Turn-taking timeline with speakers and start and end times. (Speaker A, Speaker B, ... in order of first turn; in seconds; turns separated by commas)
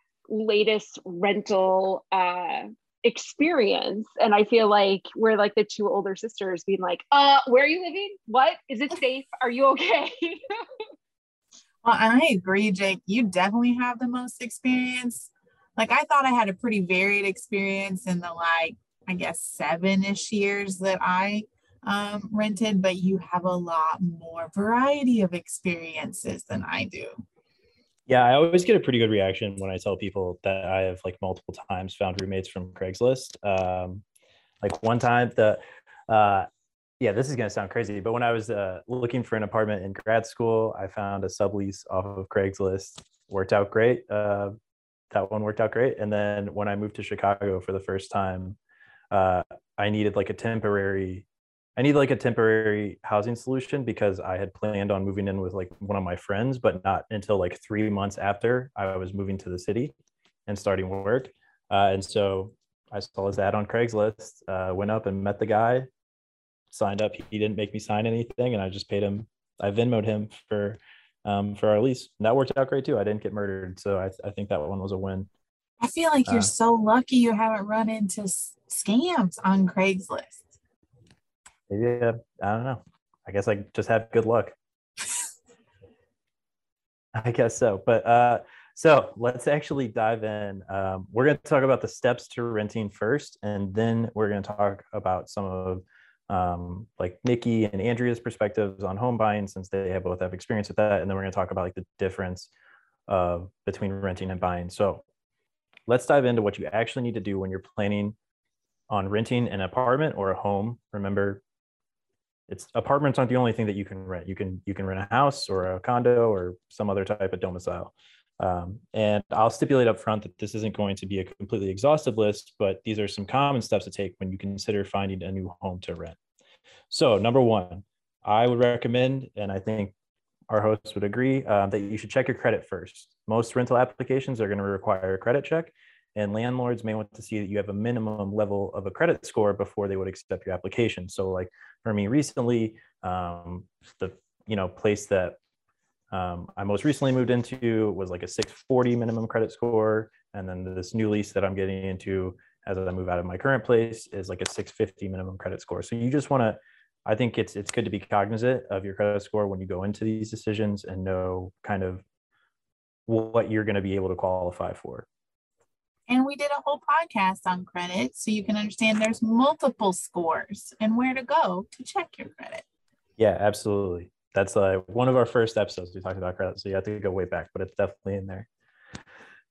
Speaker A: 0.3-10.6, Speaker B: 11.8-27.2, Speaker C: 28.1-34.0, Speaker C: 34.6-36.5, Speaker C: 37.0-44.5, Speaker C: 45.1-48.6, Speaker C: 49.1-51.2, Speaker C: 51.8-59.9, Speaker C: 60.5-65.9, Speaker C: 66.7-75.3, Speaker B: 75.8-80.5, Speaker C: 81.7-84.5, Speaker C: 87.1-102.5, Speaker C: 103.1-105.0, Speaker C: 105.9-108.2, Speaker C: 108.9-111.4, Speaker C: 112.5-126.2, Speaker C: 126.9-129.9, Speaker C: 130.5-145.4, Speaker C: 146.1-162.0, Speaker C: 163.1-165.1, Speaker B: 166.1-172.6, Speaker C: 173.2-178.5